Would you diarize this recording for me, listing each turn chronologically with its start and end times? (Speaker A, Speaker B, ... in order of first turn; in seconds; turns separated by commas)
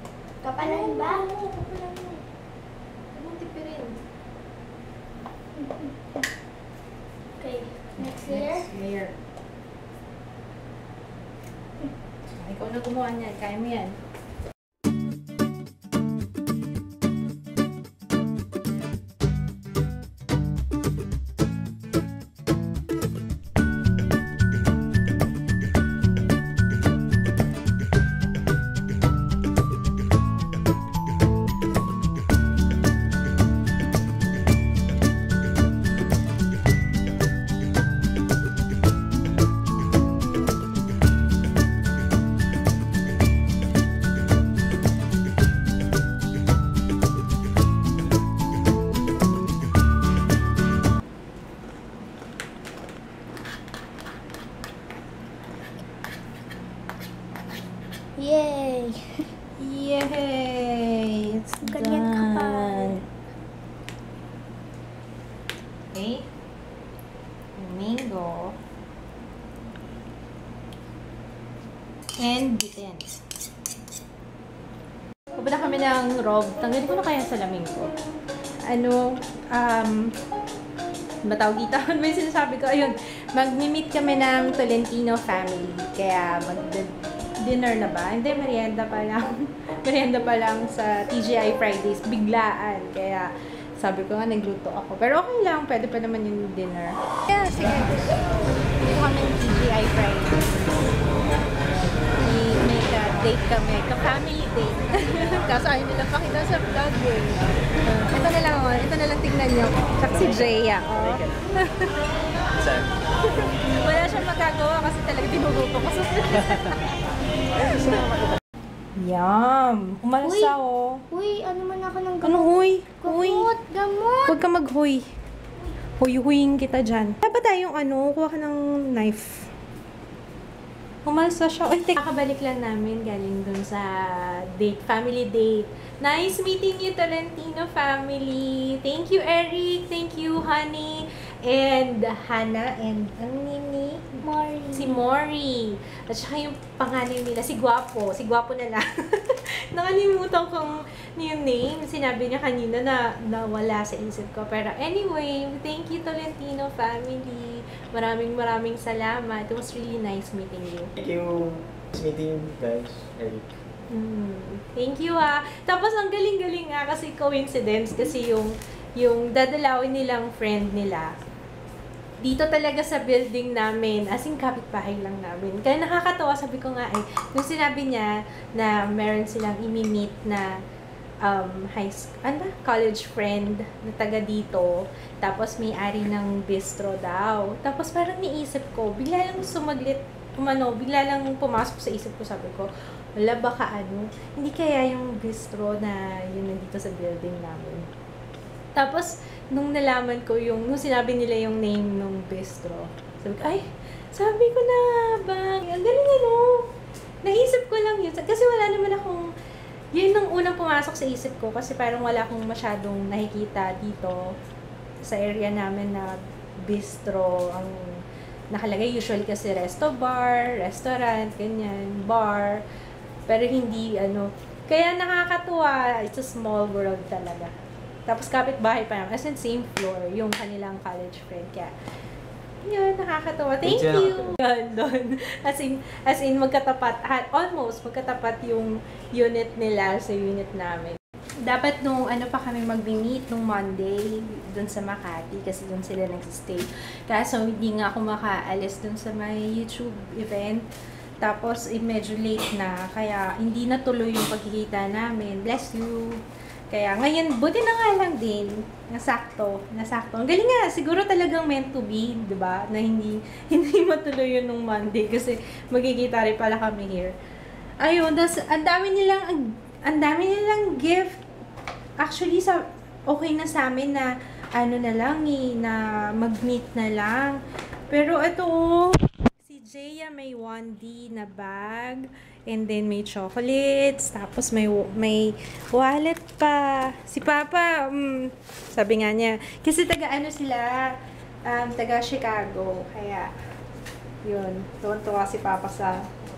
Speaker A: 0.4-1.3, Speaker B: 0.6-2.2, Speaker B: 3.1-4.0, Speaker A: 5.6-6.2, Speaker A: 7.4-8.7, Speaker B: 8.0-9.2, Speaker B: 12.4-14.0, Speaker A: 58.2-59.0, Speaker B: 59.6-63.0, Speaker A: 61.6-63.0, Speaker B: 65.9-66.2, Speaker B: 67.6-68.6, Speaker B: 72.2-73.2, Speaker B: 75.4-77.9, Speaker B: 78.7-80.1, Speaker B: 81.2-98.2, Speaker B: 98.8-100.5, Speaker B: 102.2-112.0, Speaker C: 112.6-112.9, Speaker B: 113.5-116.9, Speaker B: 117.7-118.0, Speaker B: 119.0-121.0, Speaker A: 120.2-120.6, Speaker A: 121.1-124.4, Speaker B: 122.2-123.5, Speaker B: 124.3-125.0, Speaker B: 126.0-129.5, Speaker B: 131.1-144.1, Speaker A: 144.2-145.0, Speaker B: 144.7-160.9, Speaker C: 161.0-161.4, Speaker C: 161.9-163.4, Speaker B: 163.9-171.1, Speaker B: 172.2-180.5, Speaker B: 181.2-197.9, Speaker B: 198.8-206.7, Speaker B: 207.2-209.3, Speaker B: 209.9-214.2, Speaker B: 215.1-222.6, Speaker B: 223.3-227.5, Speaker B: 228.1-231.7, Speaker B: 232.7-250.6, Speaker C: 233.7-234.3, Speaker B: 251.2-267.1, Speaker B: 267.8-271.2, Speaker B: 272.0-290.9, Speaker B: 291.5-293.3, Speaker B: 294.2-296.0